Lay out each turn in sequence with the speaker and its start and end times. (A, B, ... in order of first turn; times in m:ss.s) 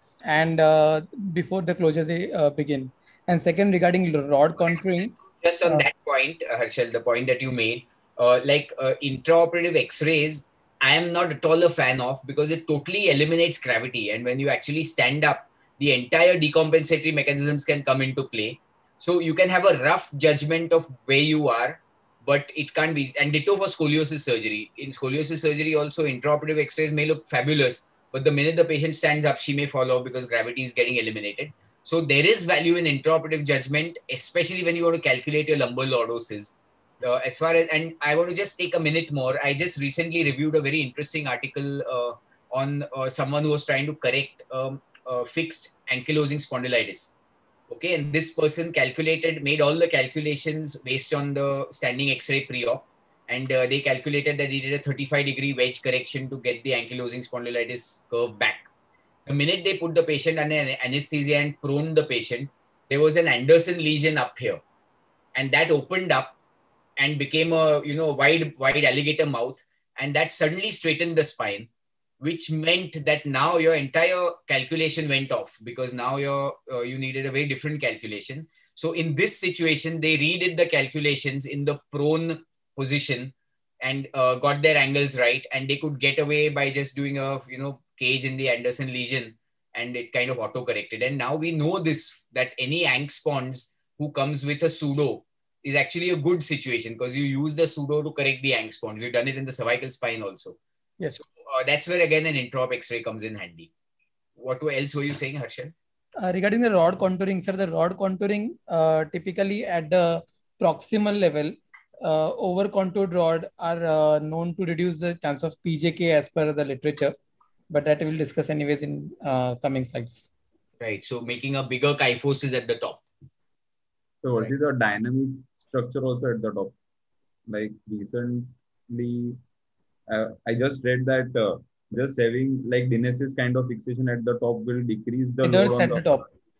0:00.2-0:05.1 A
0:04.7-0:47.2 B
0:47.7-0:58.7 B
0:59.2-1:04.6 B
1:05.3-1:06.4 B
1:07.0-1:11.7 B
1:12.2-1:40.6 B
1:41.1-1:43.7 B
1:44.4-1:45.7 B
1:46.2-1:57.1 A
1:57.7-2:00.3 A
2:00.8-2:03.0 B
2:04.2-2:06.7 C
2:07.5-2:09.4 C
2:10.1-2:16.3 C
2:15.4-2:16.2 A